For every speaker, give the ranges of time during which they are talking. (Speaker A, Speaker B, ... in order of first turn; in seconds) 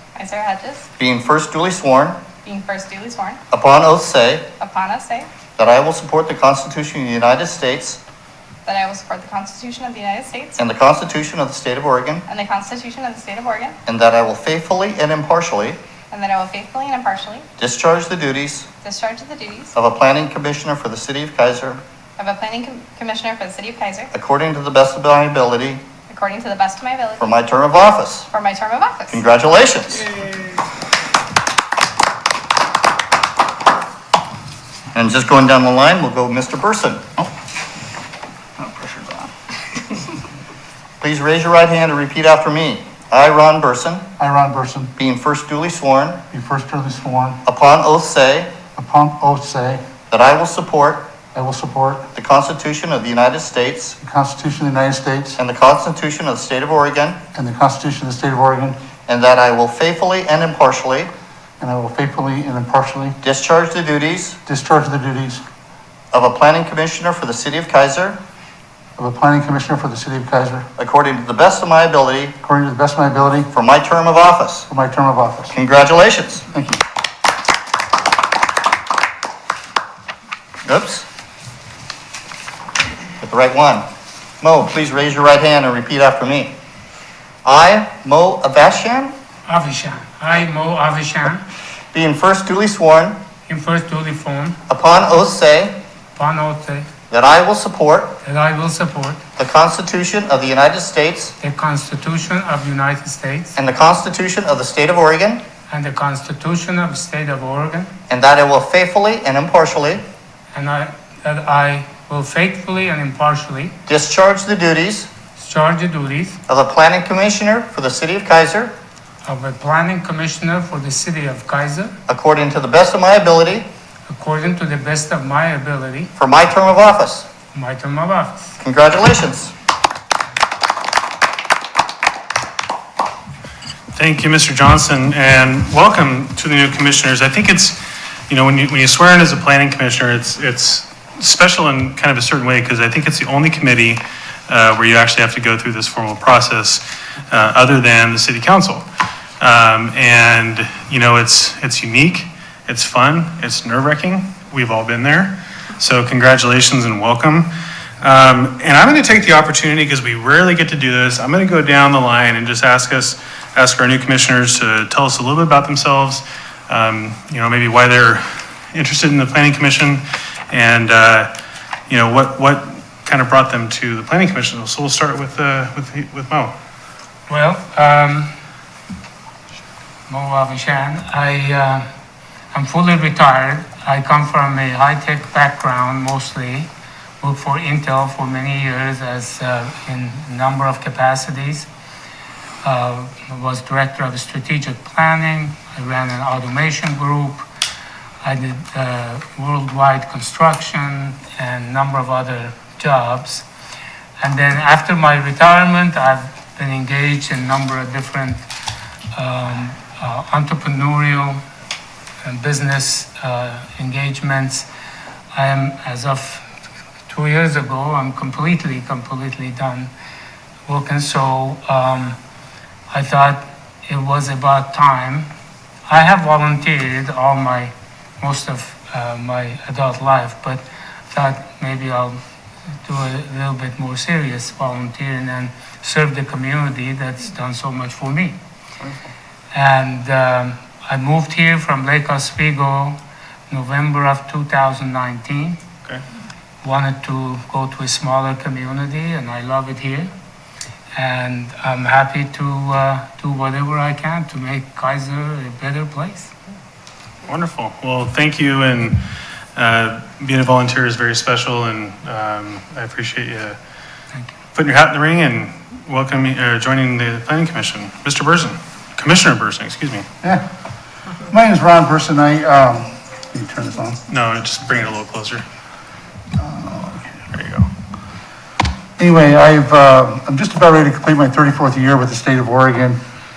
Speaker A: 0.2-0.9, 2.4-3.4, 4.6-5.3, 8.7-10.6, 12.3-13.8, 16.1-17.5, 18.8-19.7, 22.2-24.1, 26.1-27.5, 28.3-29.2
Speaker B: 1.0-2.2, 3.5-4.5, 5.6-8.0, 10.6-12.2, 13.9-15.8, 17.6-18.7, 19.8-21.8, 24.1-25.8, 27.2-28.3, 29.1-30.1, 34.9-37.0, 41.0-44.1, 45.0-46.2, 47.5-48.6, 50.1-51.1, 52.1-54.0, 55.4-57.2, 59.1-61.1, 63.2-64.4, 66.1-68.2, 70.8-72.4, 73.5-74.7, 75.5-76.7, 80.7-81.0, 83.2-83.8, 84.4-86.5, 87.5-89.2, 91.9-93.2, 94.7-95.8, 97.1-98.2, 99.4-101.3, 103.6-105.4, 108.1-110.0, 113.9-115.1, 116.5-118.7, 122.1-123.7, 126.2-127.3, 128.6-129.5
Speaker C: 38.6-39.0, 44.2-44.9, 46.3-47.4, 48.8-49.8, 51.3-52.1, 54.0-55.4, 57.3-58.8, 61.6-63.2, 64.5-65.4, 69.0-70.7, 72.4-73.5, 74.7-75.5, 271.3-274.0, 276.4-277.1, 279.0-283.0
Speaker D: 89.5-91.4, 93.5-94.6, 96.2-96.9, 98.2-99.2, 101.4-103.6, 105.7-107.9, 110.5-113.8, 115.4-116.4, 119.2-121.9, 124.1-126.1, 127.5-128.6, 177.3-178.3, 180.1-181.8, 182.5-186.7, 187.2-191.7, 192.6-197.5, 198.2-203.4, 204.2-208.4, 209.1-211.4, 212.2-214.7, 215.3-216.5, 217.1-219.9, 220.7-222.2, 222.9-225.3, 225.9-232.2, 232.8-238.4, 239.5-243.0, 243.5-245.6, 246.6-250.1, 250.9-256.3
Speaker E: 133.9-148.9, 149.4-157.5, 158.0-171.3, 171.9-176.5, 257.3-259.1, 259.6-263.6, 264.6-270.1, 274.1-275.4, 277.3-277.7